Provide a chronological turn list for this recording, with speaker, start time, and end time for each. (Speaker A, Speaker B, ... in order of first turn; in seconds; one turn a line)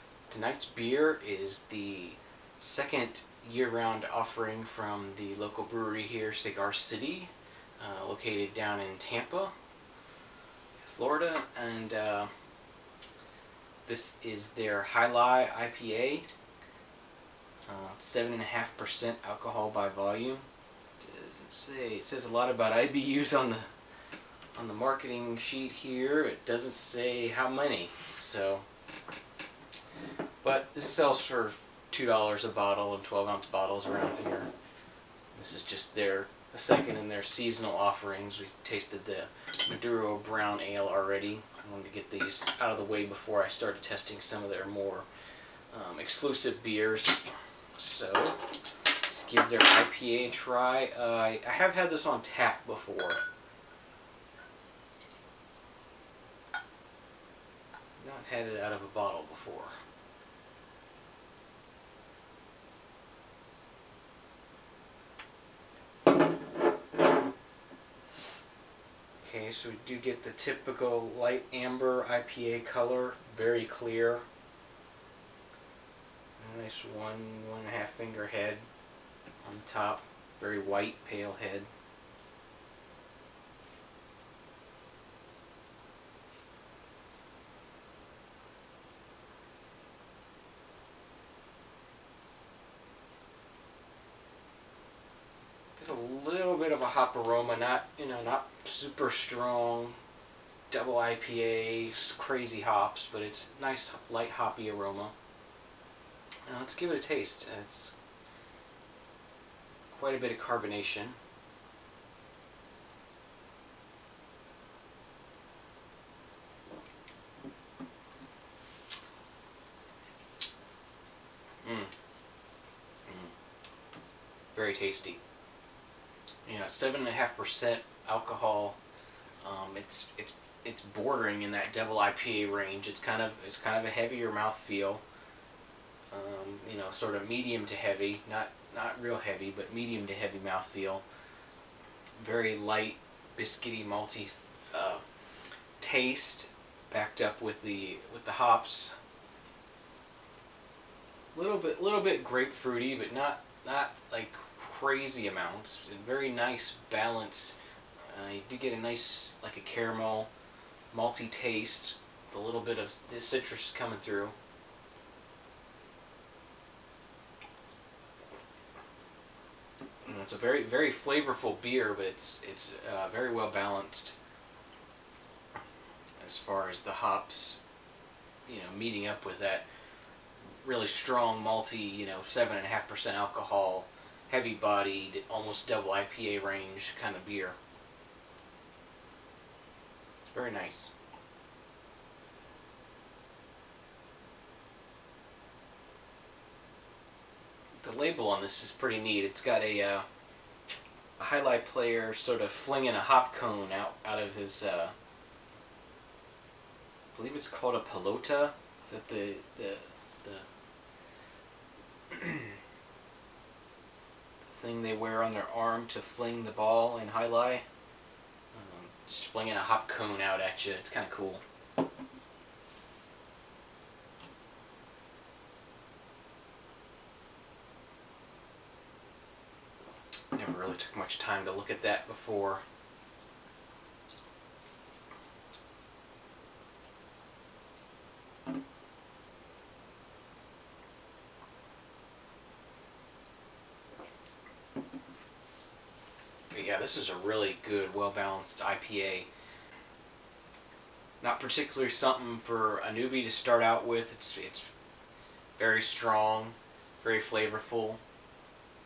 Speaker A: 0.3-9.5
Speaker A: 10.8-12.3
Speaker A: 13.9-16.3
Speaker A: 17.7-20.5
Speaker A: 21.0-23.7
Speaker A: 24.6-28.6
Speaker A: 30.4-34.5
Speaker A: 35.4-45.1
Speaker A: 45.7-53.2
Speaker A: 58.0-59.7
Speaker A: 69.2-74.2
Speaker A: 76.4-78.7
Speaker A: 79.4-81.7
Speaker A: 95.8-100.0
Speaker A: 100.7-105.1
Speaker A: 106.5-107.9
Speaker A: 109.9-111.2
Speaker A: 121.6-121.9
Speaker A: 123.1-123.3
Speaker A: 124.5-125.2
Speaker A: 126.5-128.8
Speaker A: 129.4-135.0
Speaker A: 136.1-141.0
Speaker A: 142.2-145.0
Speaker A: 145.8-149.0
Speaker A: 151.3-157.6
Speaker A: 158.1-160.3
Speaker A: 160.9-164.3
Speaker A: 170.1-174.2
Speaker A: 176.2-177.6
Speaker A: 178.5-179.7
Speaker A: 180.6-187.6
Speaker A: 190.3-190.9
Speaker A: 197.8-200.1
Speaker A: 201.2-204.9
Speaker A: 207.1-210.5
Speaker A: 212.1-212.6
Speaker A: 214.5-217.7
Speaker A: 218.5-221.4
Speaker A: 230.3-232.6
Speaker A: 246.5-249.3
Speaker A: 251.2-254.7
Speaker A: 255.6-258.0